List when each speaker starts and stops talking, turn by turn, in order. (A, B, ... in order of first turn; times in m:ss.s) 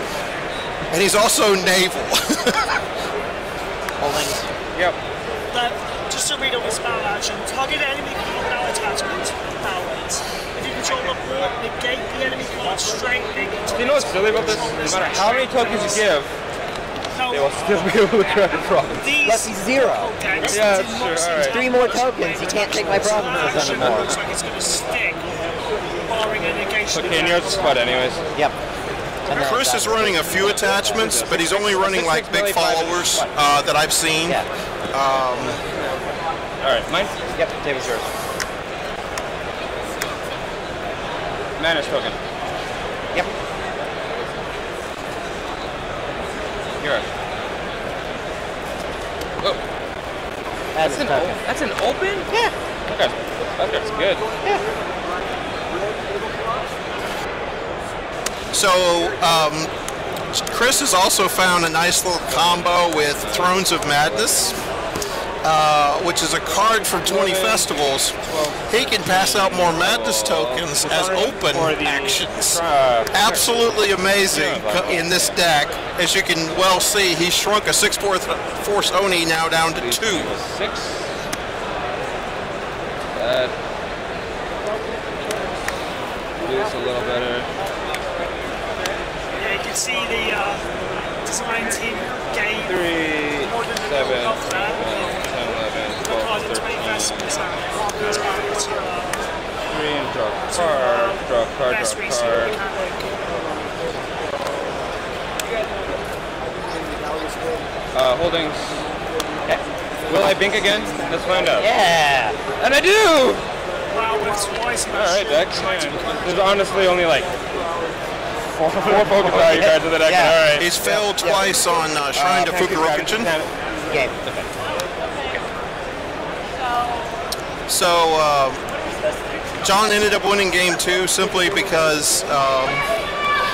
0:00.9-0:02.6 A
0:04.0-0:04.5 B
0:05.5-0:16.1 C
0:13.8-0:16.3 D
0:17.1-0:17.6 C
0:17.3-0:19.1 D
0:19.0-0:25.3 C
0:19.2-0:20.1 B
0:20.4-0:21.6 D
0:21.5-0:24.1 B
0:23.6-0:23.9 D
0:26.1-0:27.8 C
0:26.9-0:28.2 D
0:29.3-0:30.9 B
0:29.3-0:35.6 A
0:30.8-0:33.3 D
0:36.6-0:37.1 D
0:37.4-0:38.1 B
0:41.6-0:42.2 D
0:46.8-0:47.1 D
0:50.7-0:51.4 B
0:50.8-0:52.3 D
0:52.9-0:54.6 D
0:58.5-0:59.7 A
1:00.3-1:04.6 A
1:02.3-1:04.6 D
1:05.4-1:08.2 A
1:07.0-1:13.5 D
1:08.7-1:12.6 A
1:13.1-1:20.3 A
1:14.3-1:15.4 D
1:19.8-1:21.1 D
1:23.2-1:23.5 D
1:26.4-1:27.5 D
1:29.4-1:30.6 C
1:31.2-1:35.2 C
1:32.7-1:37.4 D
1:36.0-1:39.2 C
1:39.7-1:42.6 D
1:40.5-1:43.1 C
1:47.9-1:48.8 D
1:50.1-1:51.7 D
1:51.4-1:52.4 B
1:52.6-1:53.4 D
1:53.9-1:56.4 C
1:54.9-1:57.3 D
1:58.6-2:01.5 D
1:58.8-2:00.4 B
2:00.6-2:03.3 A
2:02.1-2:03.5 D
2:03.9-2:04.1 B
2:07.7-2:08.6 A
2:09.6-2:12.8 A